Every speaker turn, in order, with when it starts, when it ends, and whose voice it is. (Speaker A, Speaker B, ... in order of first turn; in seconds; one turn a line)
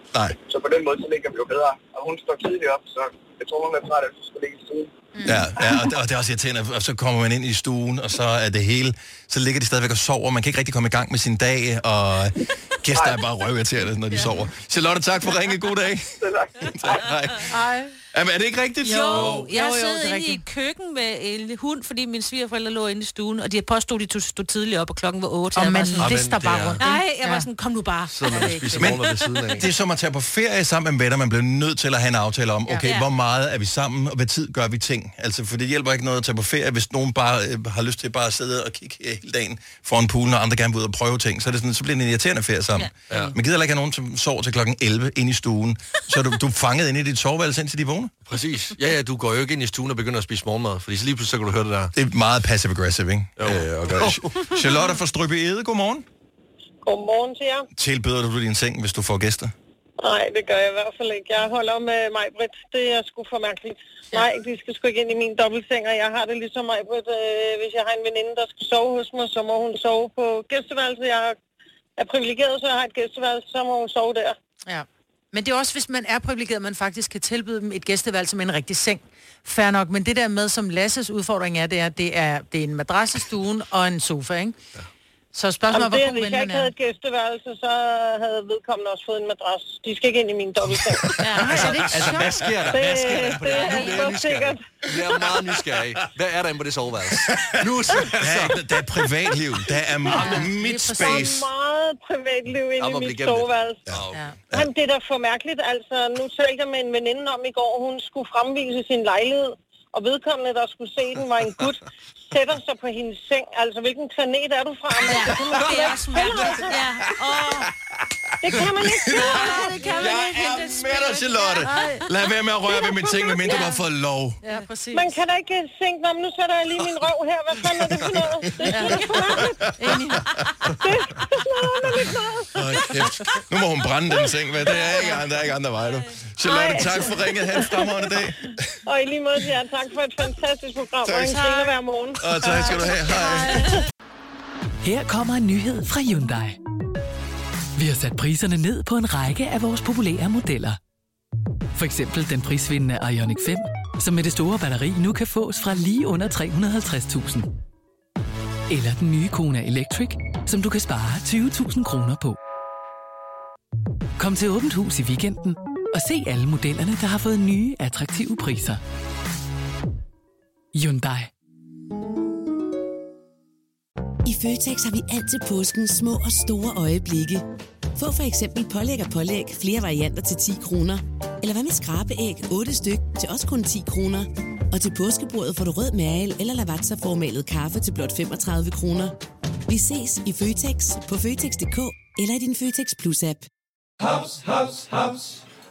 Speaker A: 0.5-4.9
Speaker B: 5.2-5.5
Speaker C: 5.2-17.6
Speaker A: 12.9-13.2
Speaker A: 16.2-17.1
Speaker B: 17.5-17.9
Speaker C: 18.1-19.5
Speaker B: 18.8-20.4
Speaker D: 18.9-29.6
Speaker B: 25.5-27.5
Speaker E: 26.0-26.8
Speaker E: 28.1-29.7
Speaker B: 28.3-28.8
Speaker C: 29.5-48.1
Speaker D: 32.8-33.1
Speaker D: 42.8-43.3
Speaker E: 48.2-51.9
Speaker C: 51.9-56.0
Speaker E: 53.4-54.5
Speaker F: 56.9-57.7
Speaker C: 57.7-59.5
Speaker F: 60.0-71.3
Speaker F: 72.0-74.3
Speaker B: 74.7-84.6
Speaker B: 85.3-86.7
Speaker F: 85.7-91.1
Speaker D: 91.2-92.0
Speaker B: 91.4-92.5
Speaker E: 91.4-98.6
Speaker F: 92.7-94.6
Speaker B: 93.6-93.9
Speaker C: 98.2-101.5
Speaker B: 100.1-101.3
Speaker F: 100.8-103.8
Speaker E: 102.8-104.3
Speaker C: 103.9-104.7
Speaker F: 104.5-111.8
Speaker F: 112.3-116.8
Speaker D: 115.0-117.7
Speaker C: 117.4-117.7
Speaker F: 118.4-119.5
Speaker C: 118.4-124.4
Speaker B: 119.2-122.0
Speaker D: 119.7-120.2
Speaker F: 122.8-123.6
Speaker B: 124.4-125.2
Speaker F: 124.9-129.5
Speaker C: 127.7-130.4
Speaker B: 128.7-129.2
Speaker B: 129.8-130.2
Speaker F: 130.8-133.0
Speaker C: 132.5-138.6
Speaker D: 134.8-135.2
Speaker F: 136.4-137.8
Speaker F: 138.8-142.3
Speaker D: 141.2-141.6
Speaker C: 142.2-143.7
Speaker G: 144.8-146.6
Speaker G: 147.8-150.8
Speaker G: 151.8-157.5
Speaker G: 158.7-162.4
Speaker G: 164.2-168.8
Speaker G: 170.7-171.3
Speaker H: 174.2-177.4
Speaker H: 177.9-189.1
Speaker H: 189.7-193.5